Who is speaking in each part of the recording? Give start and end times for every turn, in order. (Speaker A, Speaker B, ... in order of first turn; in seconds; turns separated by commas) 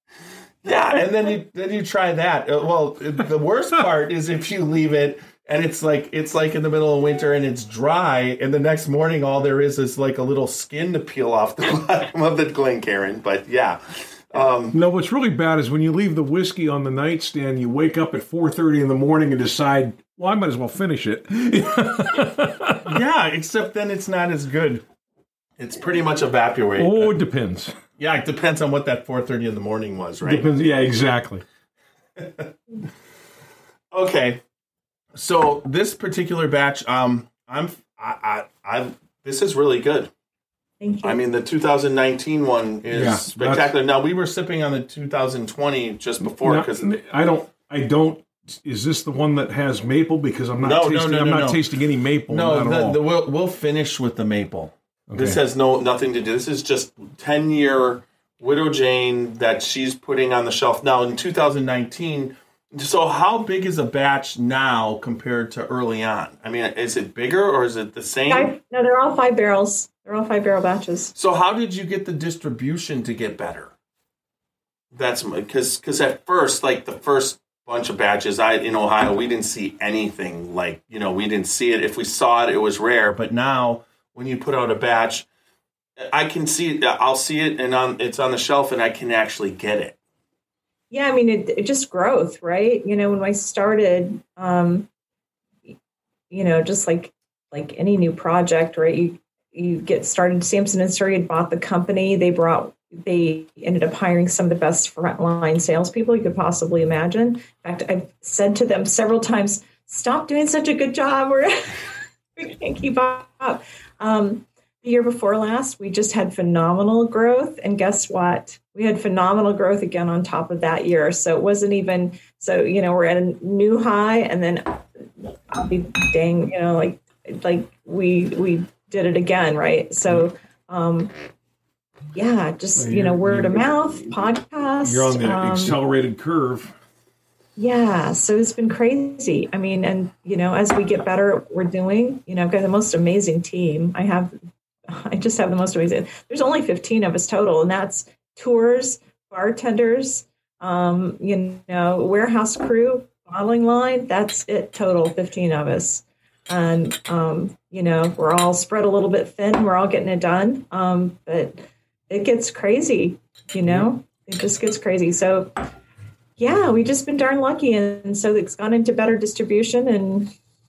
Speaker A: 0.6-14.8, Speaker B: 14.7-23.0, Speaker A: 22.9-24.9, Speaker A: 25.6-27.1, Speaker B: 26.8-27.8, Speaker A: 28.0-30.6, Speaker B: 30.2-31.4, Speaker A: 32.2-32.5, Speaker A: 33.9-34.4, Speaker A: 35.1-40.1, Speaker C: 40.8-41.2, Speaker A: 41.0-46.9, Speaker B: 42.9-43.7, Speaker B: 46.2-53.0, Speaker A: 50.6-51.6, Speaker A: 52.3-68.5, Speaker B: 55.1-55.4, Speaker C: 68.3-71.1, Speaker A: 71.2-73.7, Speaker A: 74.9-85.3, Speaker A: 86.0-90.0, Speaker C: 90.9-94.9, Speaker C: 96.3-111.8, Speaker C: 112.4-124.8, Speaker C: 125.5-131.1, Speaker C: 132.1-135.8, Speaker B: 132.8-133.9, Speaker B: 134.8-136.7, Speaker C: 137.6-144.3, Speaker C: 144.9-165.5, Speaker C: 166.4-170.3